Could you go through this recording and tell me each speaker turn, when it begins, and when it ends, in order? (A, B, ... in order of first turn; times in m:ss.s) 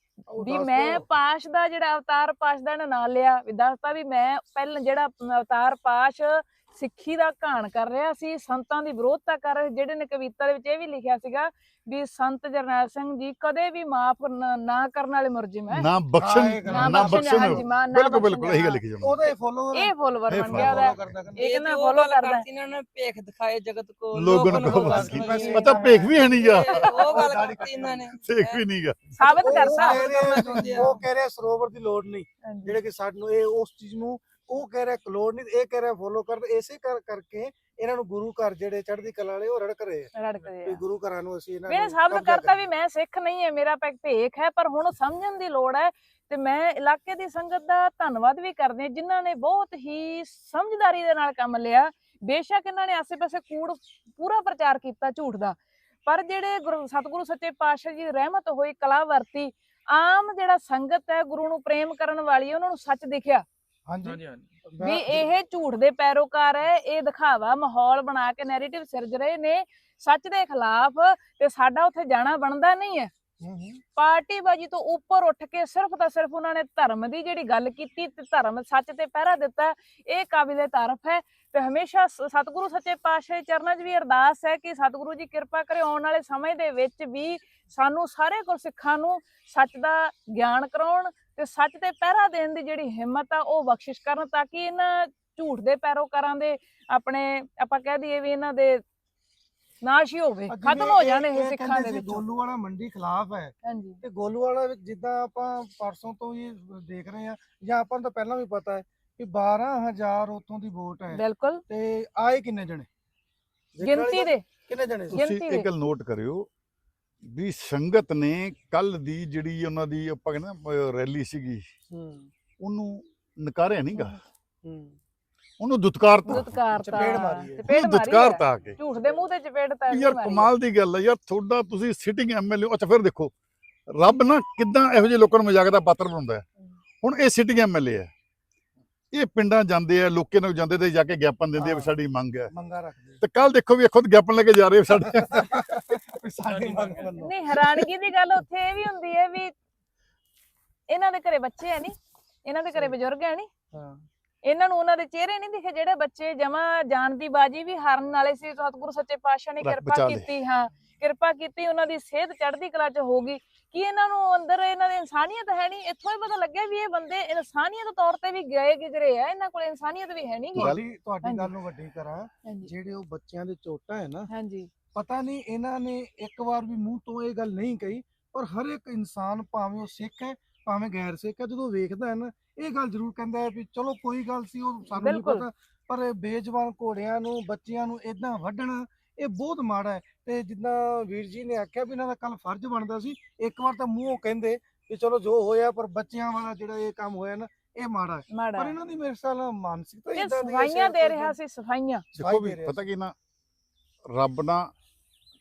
0:00.3-0:01.1 A
0:00.4-0:15.9 B
0:15.7-0:19.2 C
0:16.2-0:17.6 A
0:16.7-0:18.8 B
0:19.0-0:19.9 A
0:19.7-0:22.5 B
0:20.3-0:20.9 C
0:20.4-0:21.4 A
0:21.4-0:28.6 D
0:24.1-0:26.9 C
0:24.4-0:28.1 A
0:25.2-0:25.9 B
0:28.1-0:29.2 C
0:29.2-0:30.6 B
0:29.2-0:40.1 A
0:29.6-0:31.0 D
0:32.4-0:32.8 B
0:40.2-0:40.8 B
0:40.7-0:42.6 A
0:41.7-1:03.4 B
1:03.9-1:05.3 A
1:04.8-1:13.1 B
1:13.4-1:13.8 A
1:14.0-1:38.8 B
1:39.8-1:42.2 B
1:40.5-1:52.9 A
1:43.6-1:44.0 B
1:51.1-1:51.6 B
1:53.8-1:55.2 A
1:53.8-1:54.4 B
1:55.1-1:55.7 B
1:55.1-1:56.5 C
1:57.2-2:01.6 C
2:01.9-2:02.3 A
2:02.6-2:04.2 C
2:03.9-2:04.2 B
2:04.6-2:05.0 A
2:05.6-2:06.6 C
2:06.2-2:10.5 B
2:06.8-2:07.7 A
2:07.7-2:08.8 C
2:09.9-2:13.3 C
2:13.9-2:16.4 C
2:17.0-2:18.1 C
2:19.1-2:22.5 C
2:21.6-2:21.9 A
2:22.5-2:23.2 A
2:23.2-2:25.9 C
2:25.3-2:27.9 A
2:27.2-2:29.5 B
2:30.9-2:33.5 B
2:33.7-2:34.0 A
2:34.4-2:51.5 B
2:39.6-2:40.3 C
2:50.6-2:54.3 A
2:52.4-2:52.7 B
2:54.3-2:54.7 B
2:54.9-3:21.4 A
3:05.0-3:05.5 B
3:18.3-3:18.8 B
3:20.2-3:22.0 B
3:22.2-3:23.1 C
3:22.2-3:22.9 A
3:24.1-3:24.7 C